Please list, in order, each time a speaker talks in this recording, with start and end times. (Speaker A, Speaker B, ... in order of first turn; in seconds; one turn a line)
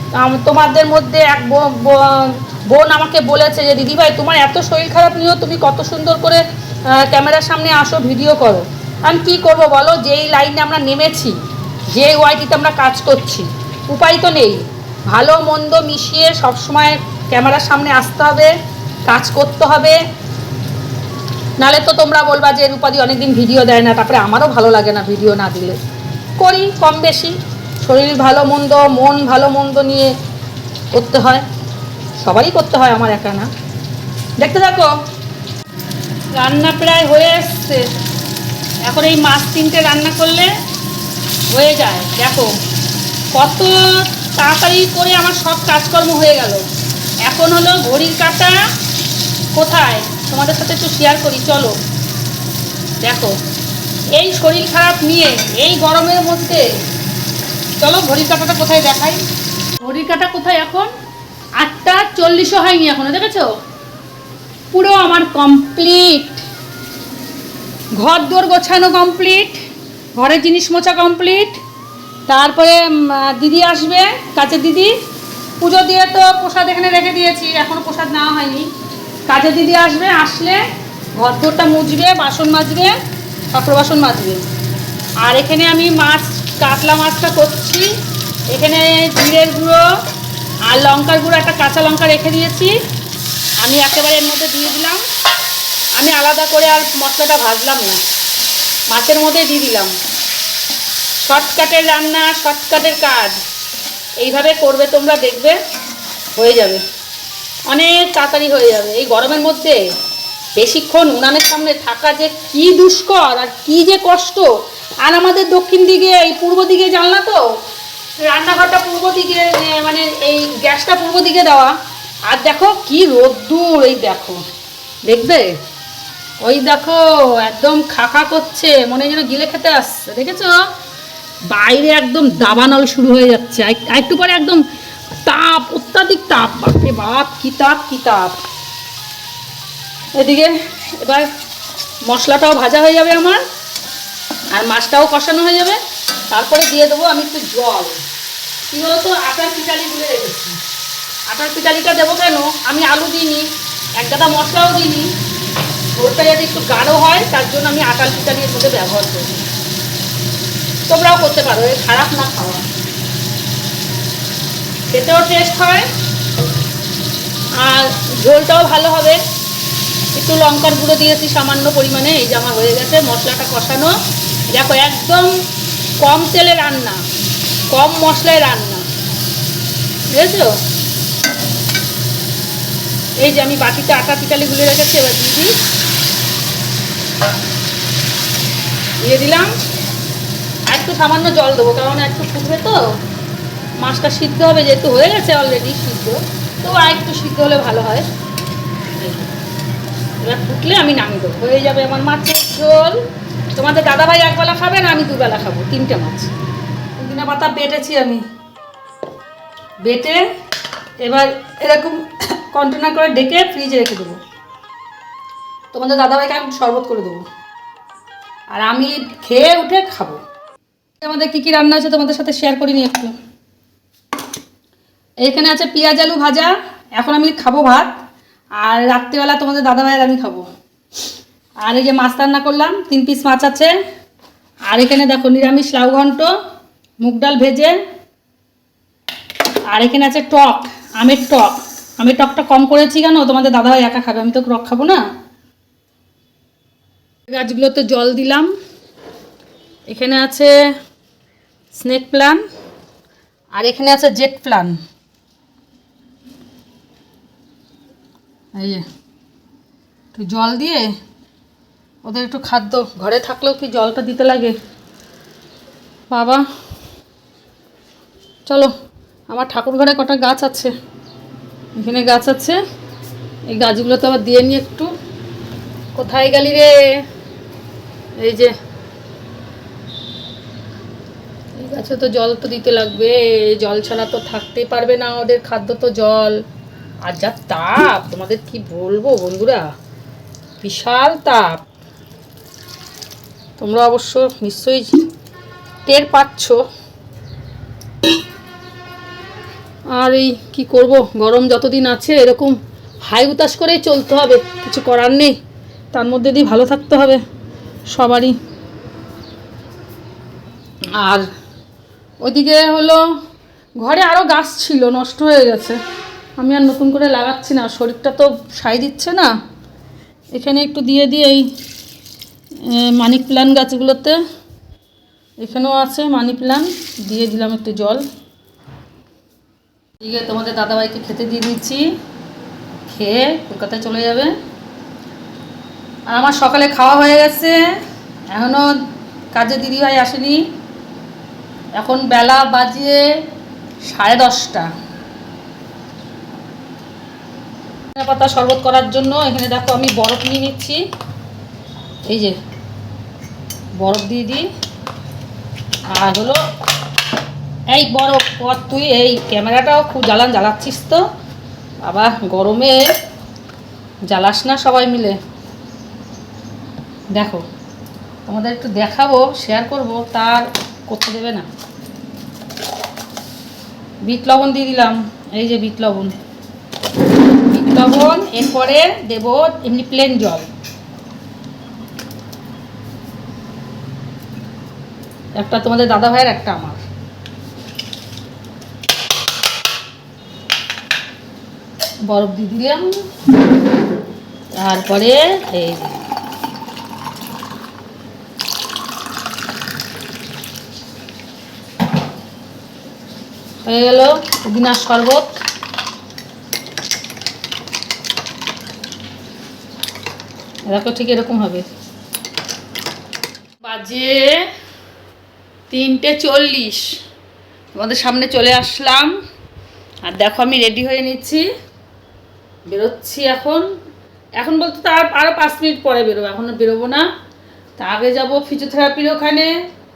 Speaker A: 0.1-18.5
Speaker A: 19.1-20.0
Speaker A: 21.6-25.8
Speaker A: 26.4-30.1
Speaker A: 30.9-31.4
Speaker A: 32.2-33.5
Speaker A: 34.4-35.0
Speaker A: 36.3-37.9
Speaker A: 38.8-40.5
Speaker A: 41.5-42.5
Speaker A: 43.3-46.6
Speaker A: 47.2-48.6
Speaker A: 49.5-51.8
Speaker A: 53.0-53.4
Speaker A: 54.1-56.7
Speaker A: 57.8-59.2
Speaker A: 59.8-60.9
Speaker A: 61.6-63.5
Speaker A: 64.7-66.4
Speaker A: 67.9-69.6
Speaker A: 70.1-71.6
Speaker A: 72.3-74.9
Speaker A: 75.6-78.7
Speaker A: 79.2-80.6
Speaker A: 81.1-82.9
Speaker A: 83.5-84.4
Speaker A: 85.2-87.9
Speaker A: 88.5-89.9
Speaker A: 90.6-92.8
Speaker A: 93.6-95.0
Speaker A: 95.9-98.0
Speaker A: 98.9-99.9
Speaker A: 101.2-103.4
Speaker A: 104.2-105.6
Speaker A: 106.3-106.8
Speaker A: 107.7-109.8
Speaker A: 110.6-114.5
Speaker A: 115.0-117.5
Speaker A: 118.2-124.4
Speaker A: 125.0-125.6
Speaker A: 126.4-130.7
Speaker A: 131.5-134.6
Speaker A: 135.2-138.4
Speaker A: 140.2-141.3
Speaker A: 142.0-143.4
Speaker A: 144.5-148.0
Speaker A: 148.7-150.6
Speaker A: 151.3-155.1
Speaker A: 155.9-159.4
Speaker A: 160.9-162.6
Speaker A: 164.9-165.9
Speaker A: 167.6-169.2
Speaker A: 170.1-173.9
Speaker A: 174.5-175.3
Speaker A: 176.0-177.0
Speaker A: 177.7-178.9
Speaker A: 180.1-180.6
Speaker A: 183.2-185.5
Speaker A: 189.0-189.5
Speaker A: 190.7-193.0
Speaker A: 193.8-198.1
Speaker A: 198.9-199.3
Speaker A: 200.2-203.0
Speaker A: 203.5-206.3
Speaker A: 207.0-208.2
Speaker A: 209.8-210.2
Speaker A: 211.0-214.2
Speaker A: 215.7-217.2
Speaker A: 218.5-220.2
Speaker A: 221.0-223.1
Speaker A: 225.2-227.9
Speaker A: 228.6-230.4
Speaker A: 231.6-233.8
Speaker A: 234.7-236.3
Speaker A: 237.0-237.8
Speaker A: 239.7-245.0
Speaker A: 247.3-248.5
Speaker A: 249.9-250.7
Speaker A: 251.7-252.4
Speaker A: 253.5-254.8
Speaker A: 258.5-258.9
Speaker A: 260.1-261.0
Speaker A: 262.0-264.6
Speaker A: 266.1-266.4
Speaker A: 268.4-268.7
Speaker A: 269.3-270.7
Speaker A: 271.8-272.6
Speaker A: 273.5-274.9
Speaker A: 275.9-277.0
Speaker A: 278.1-278.5
Speaker A: 281.5-286.4
Speaker A: 287.0-289.7
Speaker A: 290.6-291.6
Speaker A: 293.6-295.0
Speaker A: 295.9-296.6
Speaker A: 299.9-305.4
Speaker A: 305.9-307.2
Speaker A: 307.9-308.4
Speaker A: 310.9-311.3
Speaker A: 312.2-313.0
Speaker A: 313.8-315.8
Speaker A: 316.4-319.3
Speaker A: 320.3-321.5
Speaker A: 322.6-324.2
Speaker A: 325.4-328.0
Speaker A: 330.0-331.9
Speaker A: 332.9-334.3
Speaker A: 336.1-337.8
Speaker A: 338.3-338.7
Speaker A: 339.3-340.4
Speaker A: 341.7-343.2
Speaker A: 343.8-344.7
Speaker A: 347.9-350.8
Speaker A: 352.1-352.4
Speaker A: 353.8-354.5
Speaker A: 355.9-356.4
Speaker A: 357.7-361.0
Speaker A: 361.8-362.9
Speaker A: 364.1-365.2
Speaker A: 367.1-367.4
Speaker A: 368.2-371.5
Speaker A: 374.0-376.1
Speaker A: 377.5-380.5
Speaker A: 385.3-386.8
Speaker A: 392.0-393.0
Speaker A: 394.5-396.0
Speaker A: 403.6-405.4
Speaker A: 410.6-411.7
Speaker A: 413.6-414.4
Speaker A: 415.7-416.9
Speaker A: 417.7-419.1
Speaker A: 420.0-421.5
Speaker A: 422.7-423.6
Speaker A: 424.4-427.1
Speaker A: 427.8-429.5